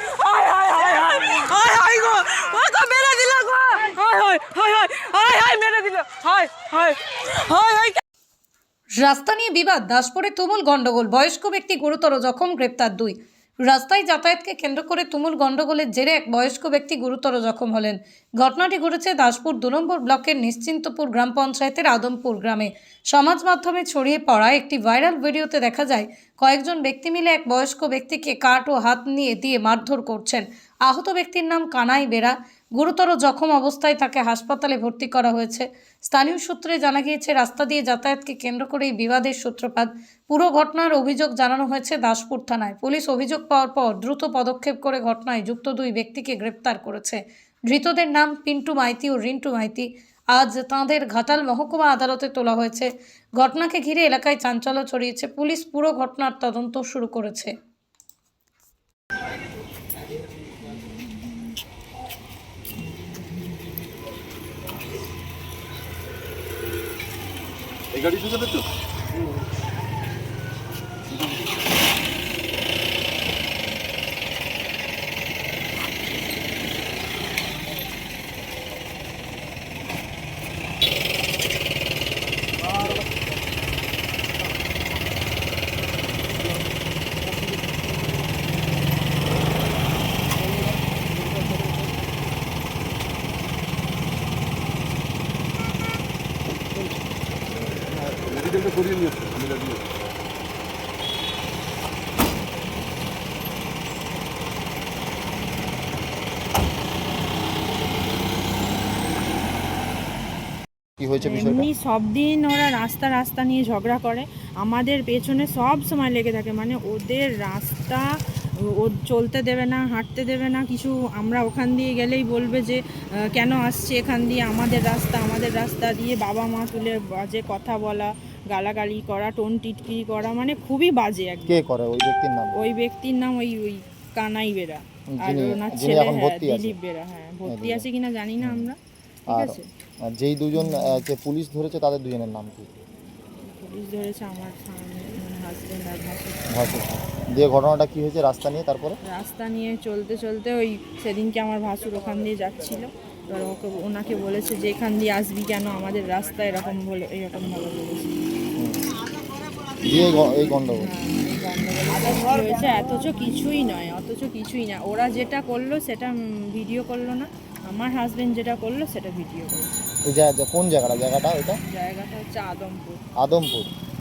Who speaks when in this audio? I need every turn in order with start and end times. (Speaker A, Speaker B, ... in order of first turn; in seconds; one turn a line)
Speaker A: 0.4-6.9
Speaker A: 7.6-7.9
Speaker B: 9.0-57.5
Speaker C: 68.0-68.6
Speaker C: 98.2-99.8
Speaker D: 111.0-111.7
Speaker E: 111.2-131.6
Speaker D: 131.5-132.6
Speaker E: 132.5-139.7
Speaker D: 135.1-136.8
Speaker D: 137.4-137.8
Speaker D: 138.4-138.7
Speaker D: 139.3-142.8
Speaker E: 140.5-141.1
Speaker E: 143.4-146.5
Speaker D: 146.5-149.0
Speaker E: 149.0-158.2
Speaker D: 158.6-158.9
Speaker D: 159.8-160.9
Speaker E: 160.8-169.9
Speaker D: 170.0-171.6
Speaker E: 171.6-173.0
Speaker D: 173.2-173.7